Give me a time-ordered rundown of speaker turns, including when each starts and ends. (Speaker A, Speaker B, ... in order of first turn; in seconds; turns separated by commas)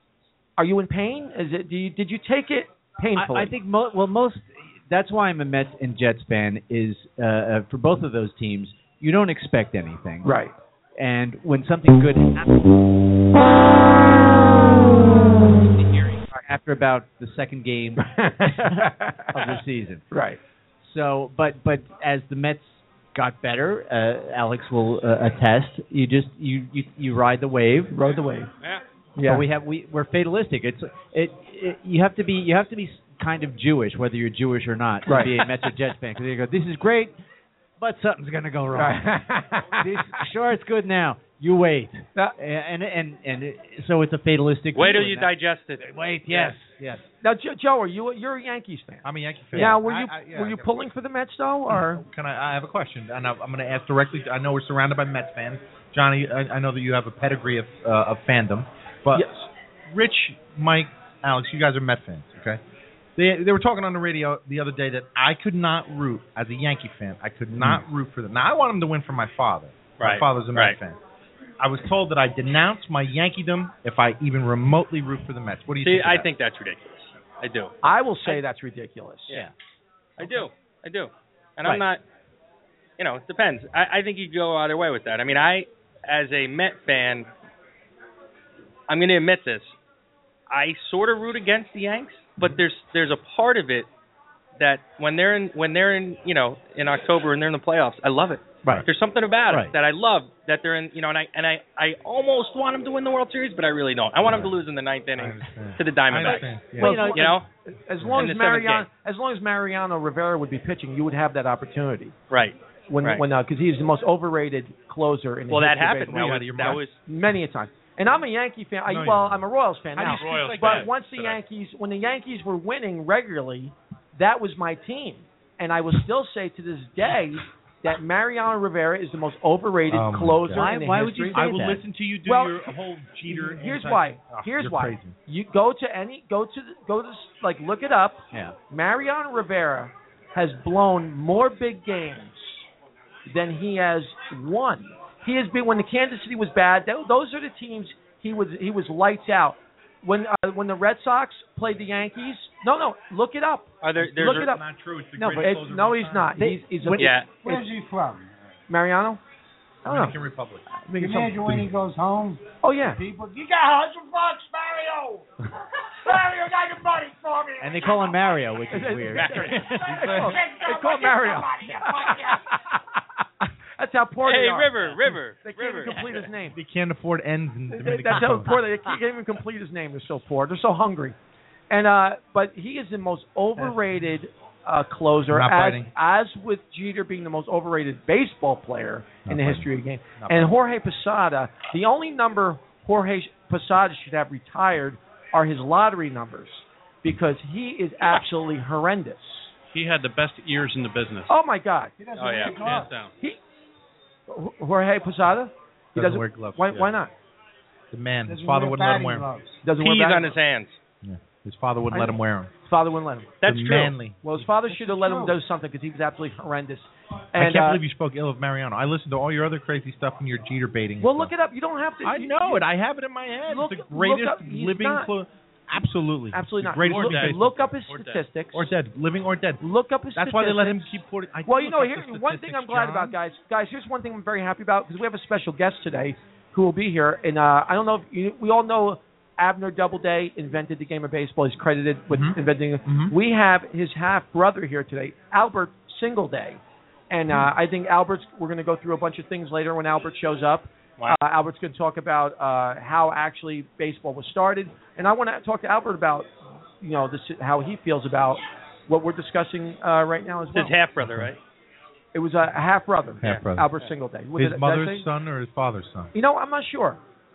Speaker A: 0.6-3.5, Speaker B: 3.1-10.4, Speaker A: 10.2-10.5, Speaker B: 11.0-12.5, Speaker B: 15.7-18.1, Speaker A: 18.0-19.6, Speaker B: 19.3-20.0, Speaker A: 20.1-20.4, Speaker B: 20.8-28.0, Speaker A: 27.9-28.5, Speaker A: 29.2-29.4, Speaker B: 29.2-37.2, Speaker A: 35.1-35.4, Speaker B: 37.8-39.2, Speaker A: 38.7-40.0, Speaker B: 39.8-47.1, Speaker C: 44.7-46.5, Speaker A: 47.2-52.0, Speaker D: 49.0-50.7, Speaker B: 49.5-49.8, Speaker D: 51.7-59.3, Speaker A: 59.1-59.5, Speaker D: 59.9-62.6, Speaker D: 63.2-71.0, Speaker C: 70.0-70.8, Speaker D: 71.6-76.3, Speaker C: 75.8-77.8, Speaker A: 77.8-79.4, Speaker C: 80.2-82.0, Speaker C: 83.0-87.3, Speaker C: 88.9-89.8, Speaker C: 90.5-93.9, Speaker C: 94.6-107.5, Speaker B: 99.5-99.7, Speaker D: 104.2-104.6, Speaker D: 105.2-107.1, Speaker A: 106.8-112.1, Speaker B: 106.8-107.4, Speaker D: 108.0-108.3, Speaker C: 108.2-108.9, Speaker C: 112.3-113.2, Speaker A: 112.9-131.7, Speaker C: 115.5-117.0, Speaker D: 116.0-116.8, Speaker D: 118.9-119.5, Speaker D: 120.0-120.8, Speaker E: 120.0-121.4, Speaker D: 129.9-130.7, Speaker B: 130.5-131.8, Speaker D: 131.3-135.2, Speaker A: 132.2-132.7, Speaker A: 133.3-142.7, Speaker A: 143.3-154.6, Speaker C: 153.8-154.5, Speaker D: 154.0-156.4, Speaker A: 155.2-157.6, Speaker B: 156.4-157.2, Speaker C: 156.9-157.3, Speaker F: 157.3-158.5, Speaker A: 158.7-159.2, Speaker D: 159.8-160.7, Speaker A: 159.9-160.2, Speaker A: 160.8-161.5, Speaker F: 161.0-168.5, Speaker A: 162.6-163.0, Speaker B: 167.6-169.9, Speaker A: 168.7-173.0, Speaker C: 169.1-169.6, Speaker F: 169.9-172.5, Speaker D: 169.9-170.3, Speaker A: 173.8-176.6, Speaker C: 174.2-176.3, Speaker D: 176.5-178.6, Speaker A: 177.7-181.2, Speaker A: 181.7-199.5, Speaker D: 185.3-185.9, Speaker D: 189.3-189.7, Speaker D: 190.2-190.6, Speaker E: 199.7-201.3, Speaker A: 201.3-201.9, Speaker F: 202.0-202.9, Speaker C: 202.2-202.6, Speaker A: 202.4-203.4, Speaker E: 202.5-203.1, Speaker A: 204.3-207.1, Speaker D: 205.9-206.9, Speaker D: 207.9-209.3, Speaker F: 208.3-209.6, Speaker A: 209.6-210.4, Speaker C: 209.8-210.8, Speaker D: 211.0-212.5, Speaker A: 211.9-213.3, Speaker C: 213.4-214.0, Speaker D: 213.4-214.5, Speaker A: 214.2-217.8, Speaker F: 214.7-215.4, Speaker D: 217.3-221.3, Speaker A: 221.0-222.7, Speaker D: 222.0-227.7, Speaker A: 223.5-225.1, Speaker A: 226.3-228.7, Speaker E: 226.8-228.2, Speaker D: 228.5-229.6, Speaker A: 229.6-256.3, Speaker D: 230.2-233.2, Speaker D: 242.1-243.1, Speaker A: 256.8-260.8, Speaker C: 260.5-261.4, Speaker D: 261.0-261.3, Speaker A: 262.1-265.1, Speaker D: 263.2-263.7, Speaker D: 264.4-266.1, Speaker A: 266.1-267.0